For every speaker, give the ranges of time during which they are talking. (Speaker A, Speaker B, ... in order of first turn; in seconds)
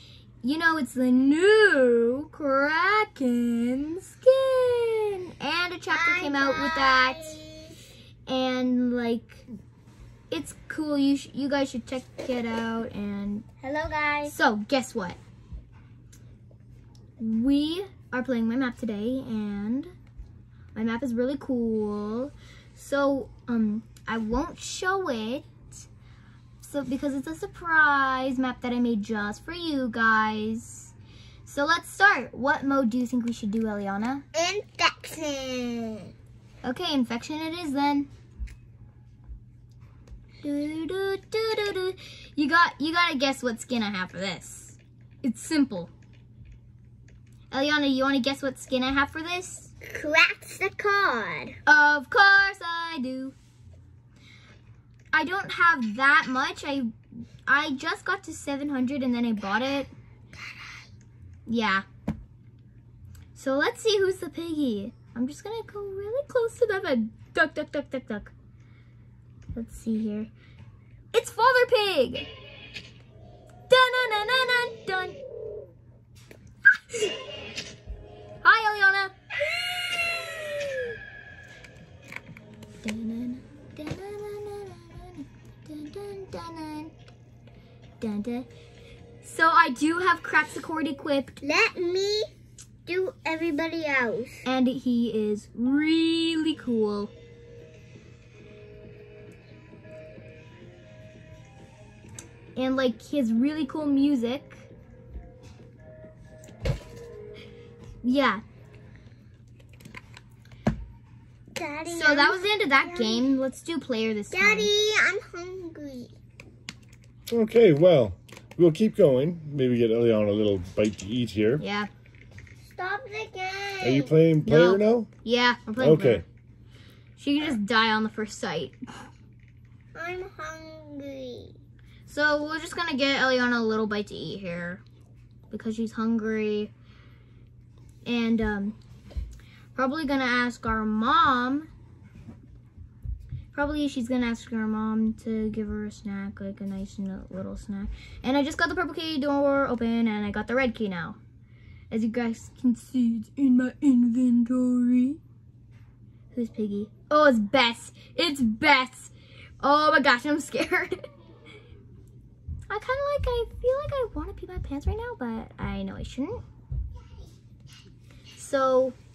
Speaker A: 0.4-7.4, 8.3-9.4, 10.3-13.4, 14.3-15.2, 17.2-19.9, 20.7-25.9, 26.6-30.9, 31.4-34.2, 36.6-38.1, 40.4-45.9, 47.5-49.7, 51.6-53.3, 55.1-56.9, 57.5-59.9, 61.5-61.8, 63.3-68.3, 69.5-70.3, 71.1-72.3, 73.7-75.2, 78.4-80.9, 82.8-86.9, 88.0-88.5, 89.2-91.4, 94.4-97.1, 102.5-104.7, 108.0-108.4, 111.9-114.7, 121.6-121.9, 124.4-126.2, 127.2-128.8, 132.1-134.8, 135.5-136.7, 138.0-138.8, 139.7-141.7, 143.5-151.2, 151.9-155.2, 156.3-161.0, 162.7-166.4, 168.4-168.9
Speaker B: 5.9-7.8, 13.6-14.3, 34.3-36.1, 49.8-51.6, 91.4-92.3, 92.8-94.4, 111.5-113.2, 114.3-116.1, 122.7-124.1, 129.9-131.5
Speaker C: 117.3-121.6, 123.8-125.1, 125.8-126.2